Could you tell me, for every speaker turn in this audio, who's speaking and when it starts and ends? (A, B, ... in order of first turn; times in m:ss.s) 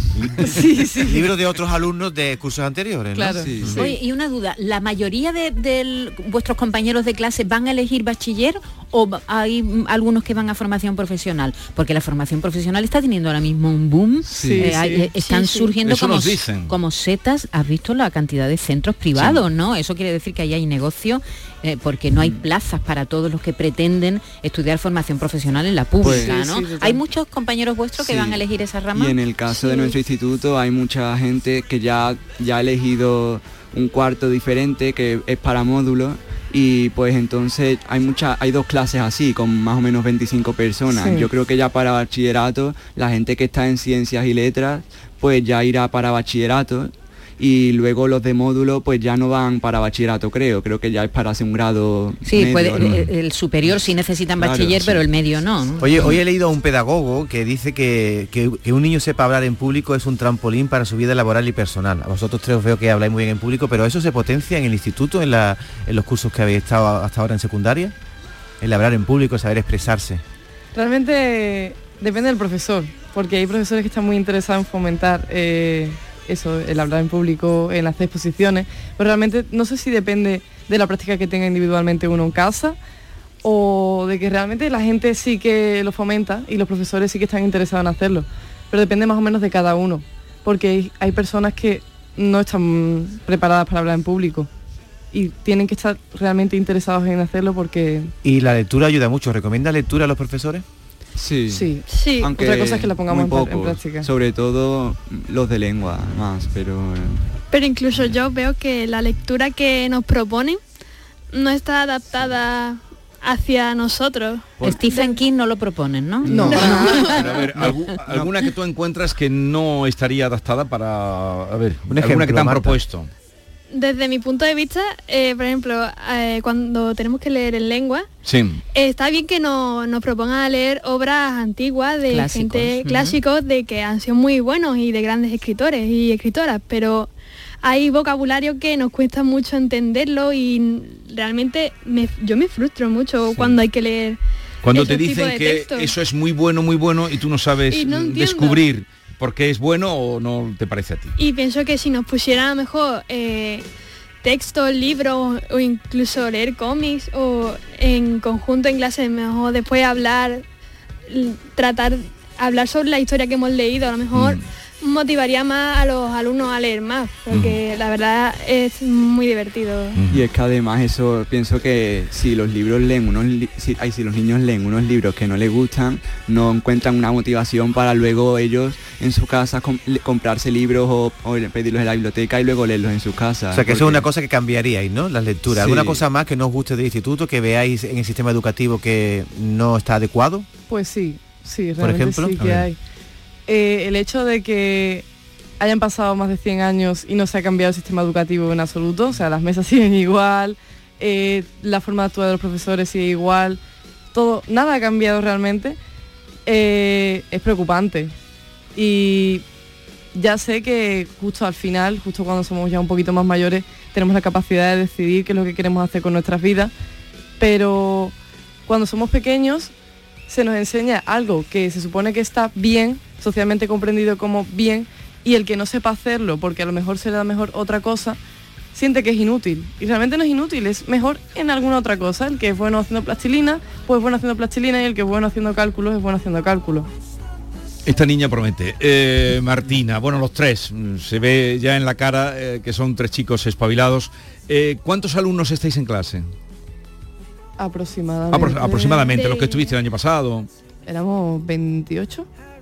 0:00.2-0:00.6 A
0:00.5-0:01.2 B
0:01.0-0:03.4 C
0:03.2-0:03.5 B
0:03.3-0:03.9 A
0:03.6-0:03.9 D
0:03.6-0:29.1 E
0:14.3-0:15.0 A
0:14.4-0:14.8 B
0:15.8-0:16.7 D
0:22.2-0:22.4 A
0:26.0-0:26.4 A
0:26.1-0:27.0 B
0:28.0-0:28.4 A
0:28.9-0:53.0 A
0:29.5-0:30.0 F
0:40.9-0:41.3 B
0:52.2-0:56.0 E
0:52.8-0:53.1 D
0:54.4-0:55.0 A
0:55.8-1:07.9 C
1:08.6-1:10.2 C
1:10.7-1:22.8 B
1:23.4-1:34.5 B
1:35.1-1:38.1 B
1:38.2-1:40.6 C
1:41.2-1:47.4 A
1:41.5-1:44.0 B
1:41.9-1:42.4 F
1:47.5-1:50.6 F
1:51.3-1:55.1 F
1:54.6-1:57.8 E
1:56.2-1:56.9 A
1:56.4-1:57.2 F
1:56.6-2:03.1 D
1:57.6-1:58.3 A
2:01.9-2:02.8 C
2:03.7-2:08.1 F
2:08.2-2:08.6 D
2:08.7-2:17.1 F
2:12.1-2:13.2 E
2:17.6-2:24.2 F
2:23.3-2:23.6 D
2:24.6-2:31.1 D
2:24.7-2:25.9 F
2:27.7-2:28.6 F
2:31.2-2:33.6 F
2:34.2-2:40.4 F
2:41.1-2:50.0 F
2:44.1-2:44.4 D
2:47.3-2:47.6 D
2:50.0-2:50.2 D
2:50.1-3:04.1 A
3:03.5-3:10.5 C
3:05.5-3:06.0 A
3:10.7-3:12.8 B
3:11.8-3:12.3 C
3:12.4-3:12.7 D
3:13.5-3:15.0 B
3:15.6-3:23.6 B
3:24.1-3:25.8 B
3:26.4-3:28.1 B
3:28.7-3:29.4 B
3:30.1-3:36.7 B
3:37.4-3:38.2 B
3:38.7-3:39.7 B
3:40.3-3:48.2 B
3:48.7-3:56.9 B
3:57.8-4:06.3 D
4:07.6-4:09.1 B
4:08.3-4:10.5 D
4:09.1-4:09.8 F
4:10.8-4:12.3 B